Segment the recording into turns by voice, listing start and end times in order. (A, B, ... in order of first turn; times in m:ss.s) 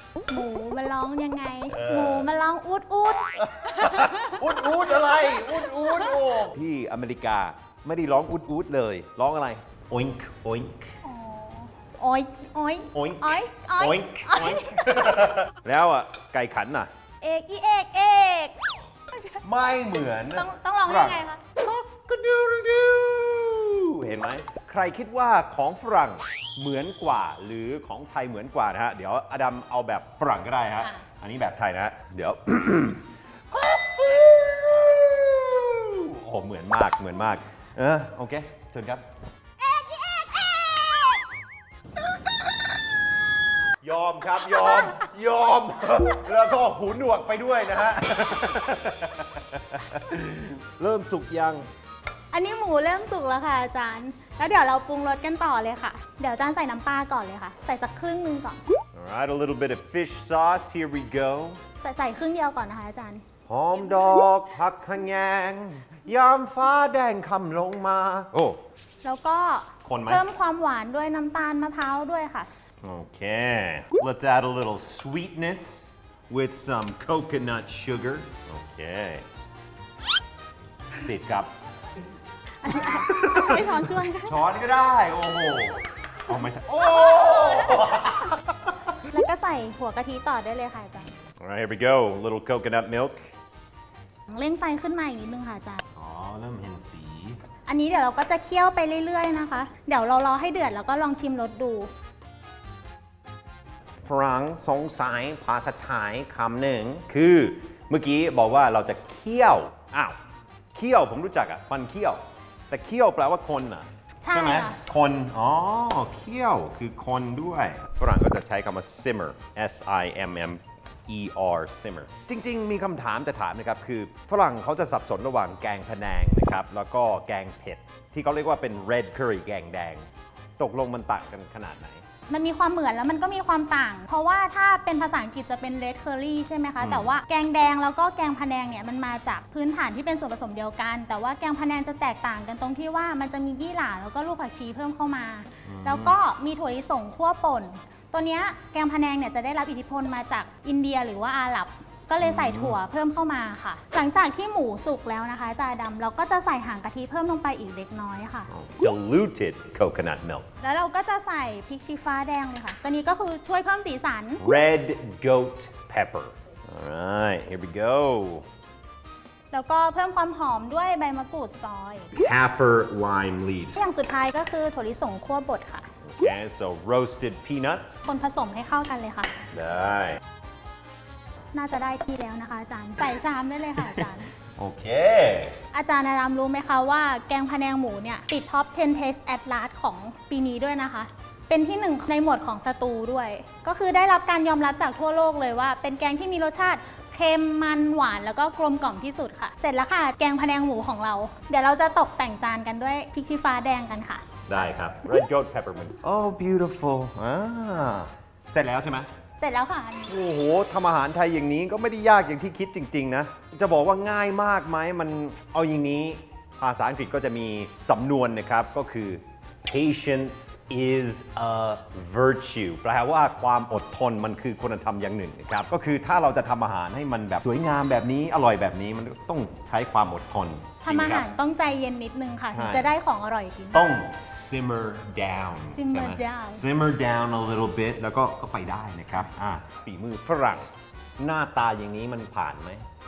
0:00.3-0:06.1 A
0:01.7-0:02.3 B
0:03.4-0:11.0 B
0:11.0-0:14.8 A
0:12.9-0:16.9 B
0:17.2-0:19.4 A
0:19.4-0:39.0 B
0:20.4-0:21.4 A
0:30.8-0:31.1 A
0:39.8-0:40.8 A
0:43.8-0:51.7 B
0:44.4-0:45.0 A
0:52.3-0:58.6 A
0:58.9-1:01.6 B
1:01.8-1:03.2 A
1:03.5-1:08.6 B
1:09.0-1:12.5 A
1:09.8-1:10.3 B
1:12.8-1:19.2 B
1:21.0-1:21.5 B
1:22.6-1:24.4 A
1:22.7-1:29.0 B
1:27.1-1:27.8 A
1:29.1-1:31.1 A
1:31.4-1:33.3 B
1:34.3-1:35.8 A
1:36.0-1:37.4 B
1:37.7-1:41.9 A
1:44.0-1:50.2 B
1:50.7-2:10.1 B
1:54.2-1:54.8 A
2:10.6-2:12.0 B
2:12.3-2:38.5 A
2:16.8-2:17.1 B
2:25.7-2:26.2 B
2:32.2-2:32.8 B
2:38.5-2:40.5 B
2:40.6-2:44.4 A
2:44.4-2:48.5 B
2:49.5-2:52.1 A
2:52.1-2:53.8 B
2:53.7-2:55.9 A
2:56.1-2:58.0 B
2:58.0-2:59.3 A
2:59.5-3:00.2 B
3:01.5-3:04.3 A
3:03.8-3:05.6 B
3:05.7-3:24.2 A
3:24.5-3:29.1 B
3:29.4-3:30.1 A
3:30.1-3:51.3 B
3:50.8-3:53.9 A
3:52.5-3:52.9 B
3:53.7-4:00.7 B
3:55.6-3:56.6 A
4:01.2-4:02.8 B